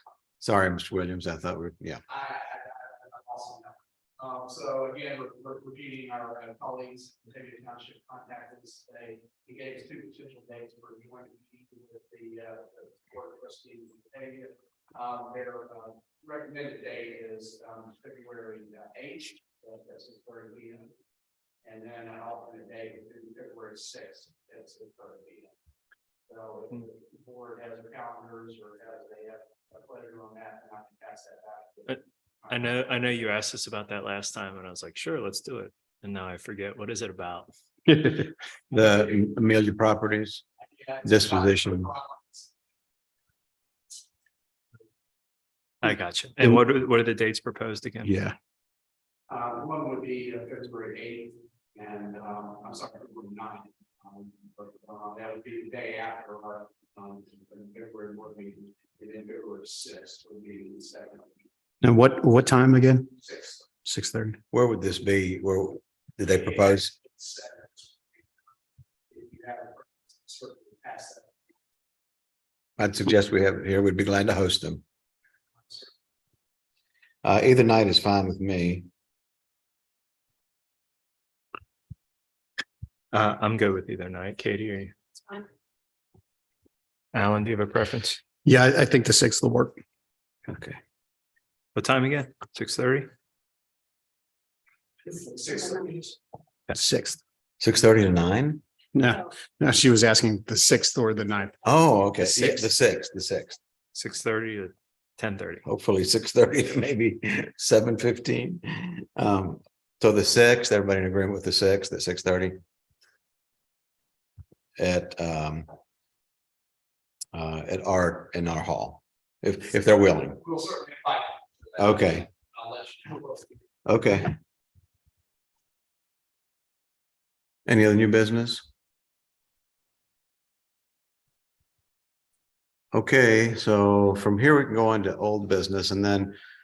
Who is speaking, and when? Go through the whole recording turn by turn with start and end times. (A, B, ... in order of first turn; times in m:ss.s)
0:00.4-0:02.0 A
0:02.1-0:20.9 B
0:21.6-0:25.5 B
0:26.3-0:32.8 B
0:31.9-0:37.5 C
0:37.9-0:38.3 D
0:38.7-0:40.4 A
0:40.8-0:42.5 B
0:41.0-0:41.9 A
0:45.8-0:48.2 C
0:48.0-0:48.4 D
0:49.3-1:01.5 B
1:01.8-1:03.1 D
1:03.2-1:03.7 B
1:03.8-1:04.4 D
1:04.5-1:06.9 A
1:06.5-1:08.0 B
1:09.1-1:11.3 B
1:12.8-1:14.8 A
1:17.2-1:18.9 A
1:23.1-1:25.0 C
1:27.1-1:28.2 C
1:28.4-1:29.8 D
1:30.5-1:30.8 A
1:31.8-1:33.1 C
1:35.1-1:36.2 B
1:36.7-1:37.2 D
1:37.6-1:38.6 A
1:39.0-1:41.6 D
1:41.6-1:43.6 A
1:43.9-1:45.6 C
1:45.6-1:52.6 A
1:54.8-1:55.7 A
1:57.3-2:00.4 A
2:00.4-2:03.6 B
2:01.8-2:02.3 A
2:03.9-2:04.4 A
2:07.7-2:08.7 A
2:12.9-2:16.3 A